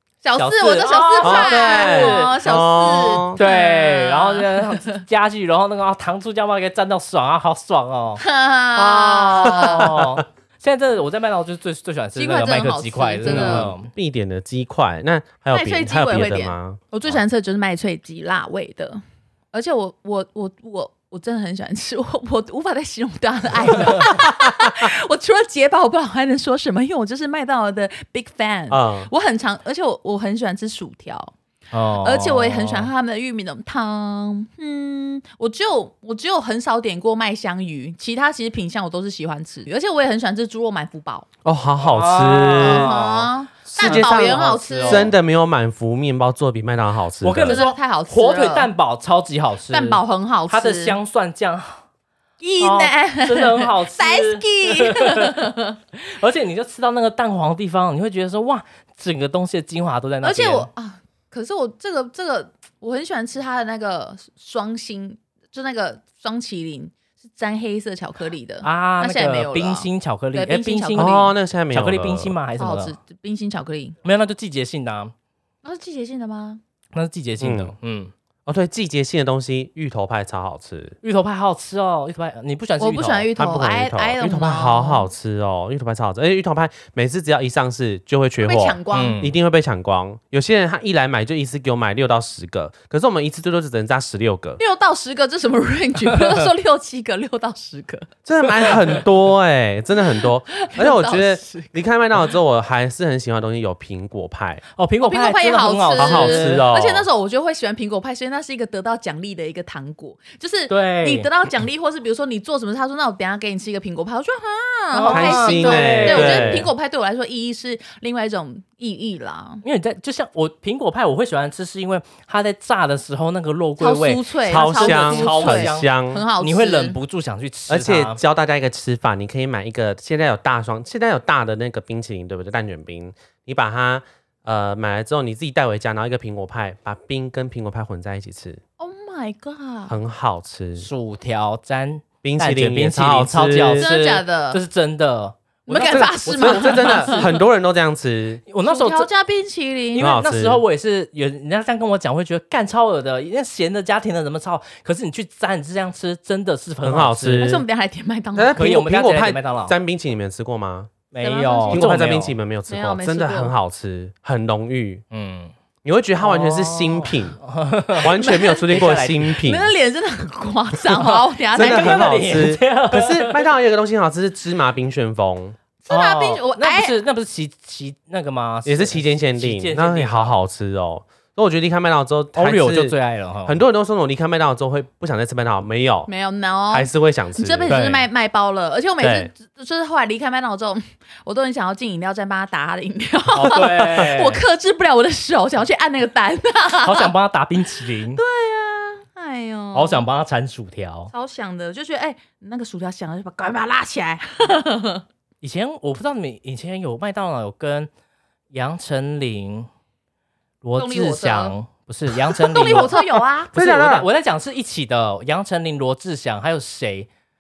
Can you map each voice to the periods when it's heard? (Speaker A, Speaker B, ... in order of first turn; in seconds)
Speaker A: 0.2-5.0, 8.2-10.0, 12.2-13.7, 15.5-19.0, 19.5-31.3, 32.0-41.2, 42.5-45.1, 47.4-48.7, 49.7-51.0, 52.4-55.7, 60.2-71.3, 72.6-73.9, 75.6-76.6, 82.8-85.1, 88.4-89.2, 94.6-99.0, 100.5-101.7, 105.0-119.6, 123.8-127.0, 138.8-139.9, 143.8-144.6, 145.7-147.4, 148.6-150.1, 157.4-158.6, 161.2-161.8, 162.7-163.5, 168.0-168.8, 169.4-172.2, 175.8-176.9, 186.1-197.1, 198.1-200.0, 201.1-205.0, 210.8-211.5, 212.3-213.5
Speaker B: 0.3-2.4, 3.4-8.2, 8.7-13.9, 31.7-32.9, 41.8-45.1, 47.2-51.8, 52.6-60.7, 68.6-72.9, 74.0-75.1, 76.9-78.1, 81.0-83.3, 88.9-89.3, 104.8-106.7, 110.7-111.3, 114.9-116.6, 119.6-128.2, 140.8-147.3, 148.5-149.1, 149.9-157.5, 158.6-159.7, 161.1-162.4, 165.1-165.5, 166.2-168.2, 168.7-169.3, 171.6-173.4, 175.9-180.3, 182.3-183.6, 187.7-188.1, 193.3-194.4, 196.8-198.2, 199.7-201.1, 205.4-207.9, 208.5-209.7, 210.6-217.1
Speaker C: 1.2-3.4, 9.5-10.2, 13.2-17.2, 28.7-29.1, 41.4-43.0, 43.7-47.6, 71.0-72.3, 77.4-77.7, 78.5-81.0, 83.3-94.6, 98.2-104.6, 106.0-107.0, 115.1-116.7, 124.5-126.2, 127.7-138.6, 139.9-140.9, 142.2-143.9, 145.7-148.4, 149.9-150.6, 156.8-157.6, 158.3-160.9, 161.7-165.0, 165.8-167.4, 168.0-169.7, 171.5-175.6, 178.6-182.9, 183.4-186.1, 186.7-187.7, 189.0-189.3, 213.5-214.1